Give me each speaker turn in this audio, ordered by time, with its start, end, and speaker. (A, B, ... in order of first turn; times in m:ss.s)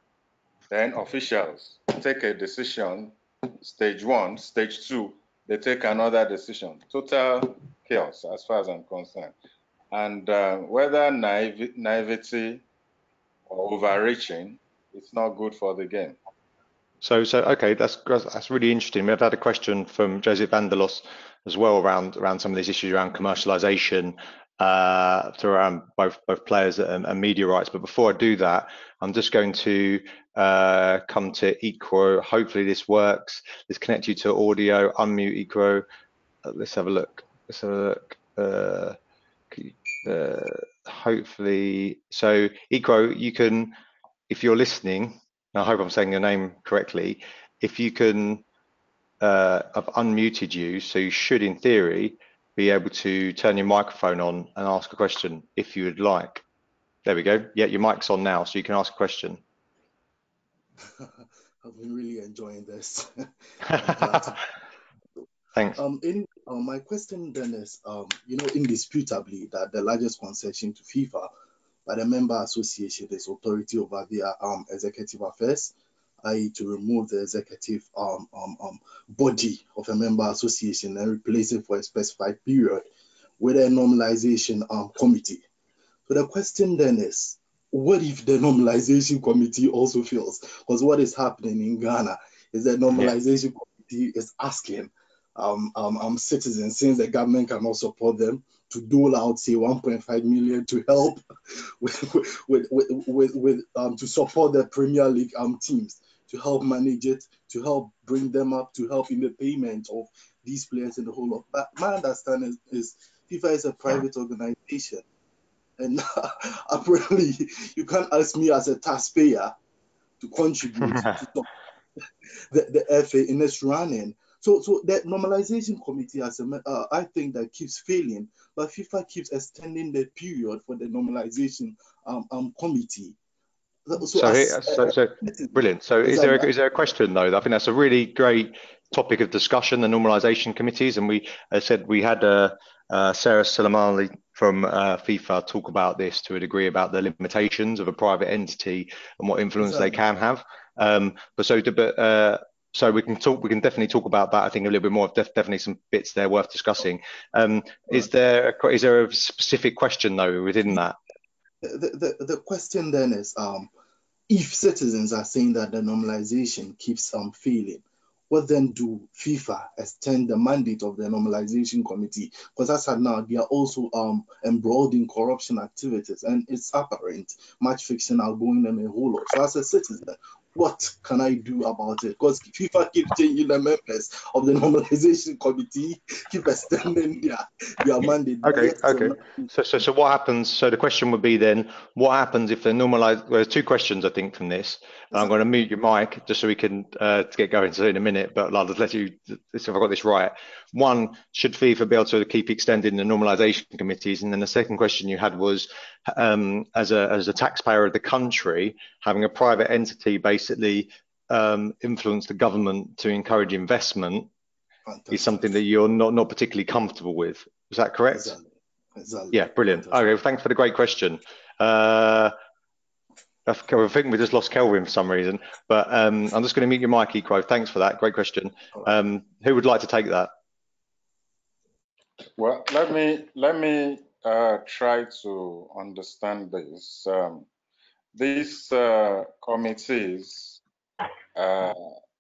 0:00.7-0:09.3 A
0:09.9-0:12.6 A
0:13.5-0:16.2 A
0:17.0-0:35.8 B
0:36.4-0:39.0 B
0:39.5-0:43.7 B
0:44.3-0:48.4 B
0:49.2-0:56.4 B
0:57.0-0:59.4 B
1:00.8-1:04.5 C
1:03.8-1:04.2 B
1:05.7-1:11.3 C
1:11.9-1:22.9 C
1:23.4-1:25.4 C
1:26.1-1:41.2 C
1:41.8-1:55.0 C
1:55.8-1:59.5 C
2:00.2-2:01.5 C
2:02.5-2:13.2 C
2:13.9-2:16.5 C
2:14.2-2:41.0 B
2:41.6-2:43.7 C
2:44.3-3:09.5 C
3:08.4-3:34.3 B
3:34.9-3:35.2 C
3:35.1-3:38.4 B
3:38.1-3:39.9 C
3:39.3-3:42.3 B
3:43.5-3:50.3 B
3:52.4-3:57.5 A
3:58.1-4:00.6 A
4:01.4-4:02.0 A